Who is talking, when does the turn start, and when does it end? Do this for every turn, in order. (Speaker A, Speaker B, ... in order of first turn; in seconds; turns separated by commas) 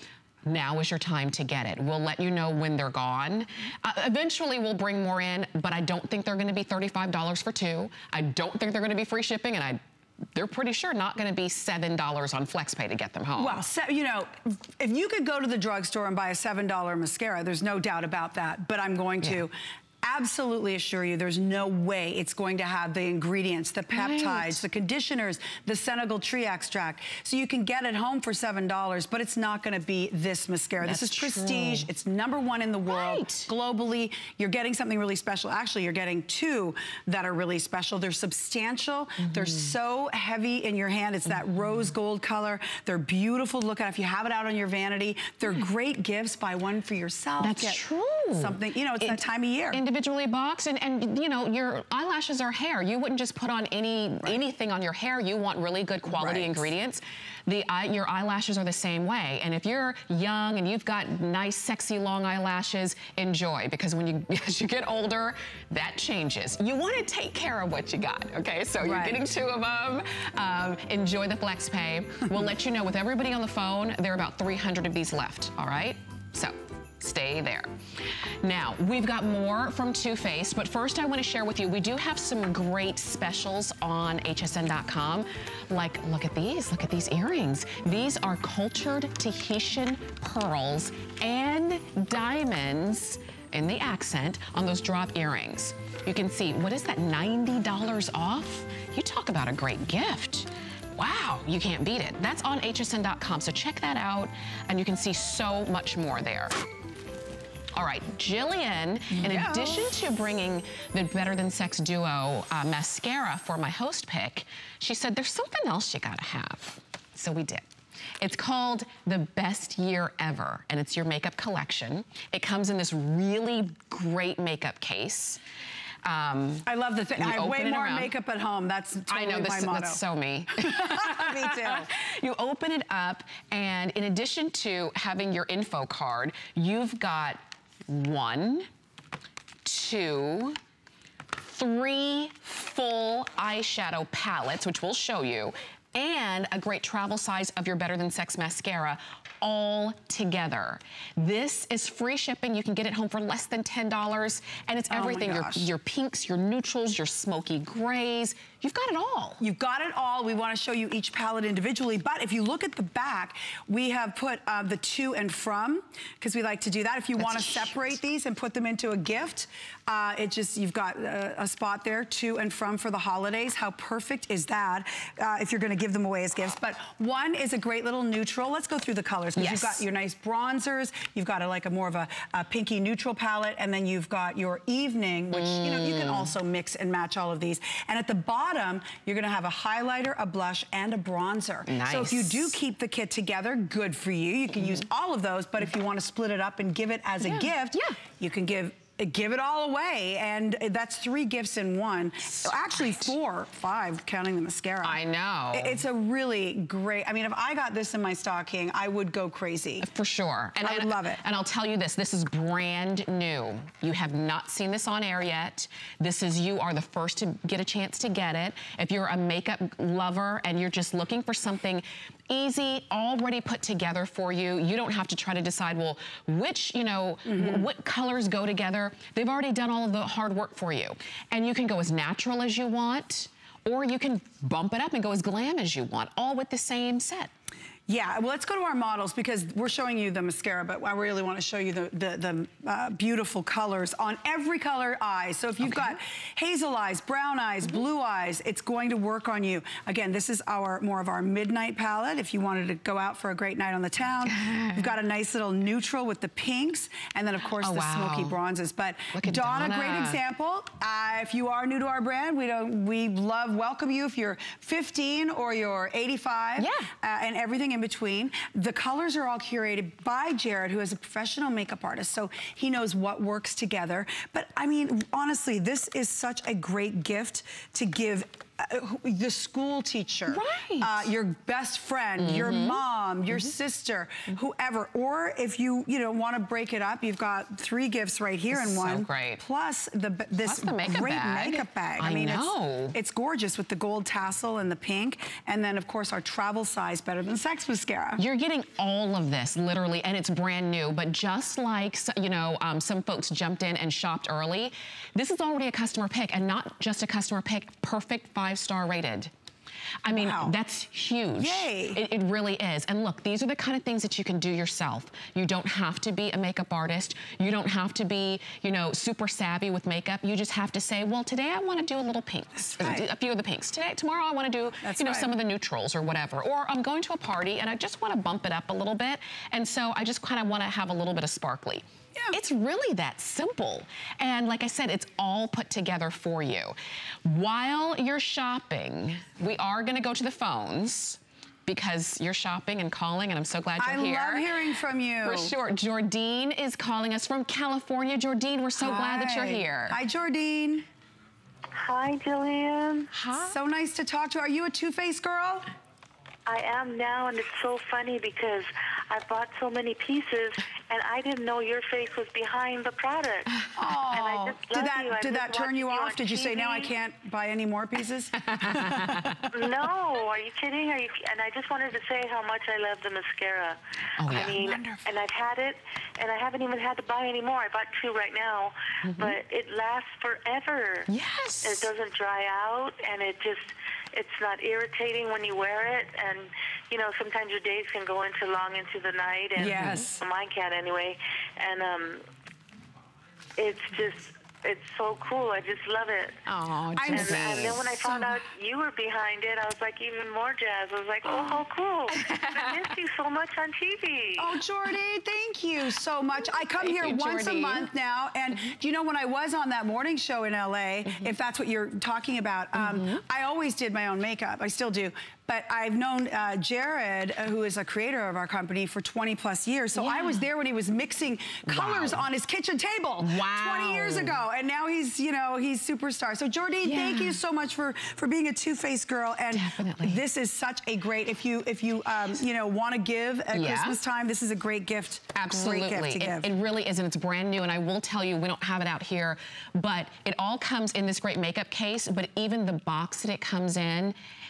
Speaker A: 0.5-9.8, Speaker A: 10.3-13.6, Speaker B: 13.4-47.8, Speaker A: 23.9-24.6, Speaker A: 30.8-31.9, Speaker A: 32.9-33.5, Speaker A: 39.2-39.7, Speaker A: 47.4-49.2, Speaker B: 48.3-49.8, Speaker A: 49.7-77.7, Speaker B: 56.1-56.7, Speaker B: 68.8-69.2, Speaker A: 78.4-106.5, Speaker A: 107.7-117.6, Speaker B: 109.1-109.9, Speaker A: 118.2-125.4, Speaker A: 126.0-128.1, Speaker B: 126.7-130.0, Speaker A: 129.1-138.7, Speaker B: 130.6-131.9, Speaker A: 139.7-140.6, Speaker A: 141.4-159.4, Speaker B: 154.9-155.7, Speaker B: 159.4-205.0, Speaker A: 167.2-167.9, Speaker A: 179.4-179.8, Speaker A: 185.3-186.3, Speaker A: 191.7-192.5, Speaker A: 197.2-198.0, Speaker A: 202.3-203.1, Speaker A: 204.8-205.8, Speaker B: 205.5-209.9, Speaker A: 209.8-237.3, Speaker B: 210.6-211.2, Speaker B: 227.3-227.7, Speaker B: 237.9-298.2, Speaker A: 245.6-246.0, Speaker A: 254.3-254.8, Speaker A: 257.6-258.4, Speaker A: 259.1-260.2, Speaker A: 266.6-266.9, Speaker A: 280.3-281.1, Speaker A: 282.2-282.8, Speaker A: 288.5-289.4, Speaker A: 290.4-293.0, Speaker A: 298.2-309.3, Speaker A: 310.1-344.5, Speaker B: 310.1-310.6, Speaker B: 311.4-312.0, Speaker B: 322.7-323.1, Speaker B: 324.8-325.3, Speaker B: 343.8-345.6, Speaker A: 345.2-350.0, Speaker B: 348.8-350.9, Speaker C: 351.8-353.1, Speaker B: 353.3-355.7, Speaker C: 356.5-366.9, Speaker B: 363.8-369.4, Speaker A: 368.5-369.4, Speaker C: 369.5-381.1, Speaker A: 374.2-374.9, Speaker A: 379.1-379.4, Speaker A: 381.1-381.9, Speaker C: 381.6-392.2, Speaker B: 389.6-390.2, Speaker A: 389.6-390.0, Speaker C: 393.6-396.4, Speaker A: 396.5-398.0, Speaker B: 397.0-398.3, Speaker C: 397.1-404.5, Speaker A: 402.2-402.7, Speaker B: 404.4-436.5, Speaker A: 406.6-407.9, Speaker A: 412.8-413.2, Speaker A: 420.0-420.4, Speaker A: 421.7-422.2, Speaker A: 423.2-424.4, Speaker A: 426.8-427.4, Speaker A: 429.5-430.2, Speaker A: 433.5-434.0, Speaker A: 435.3-444.2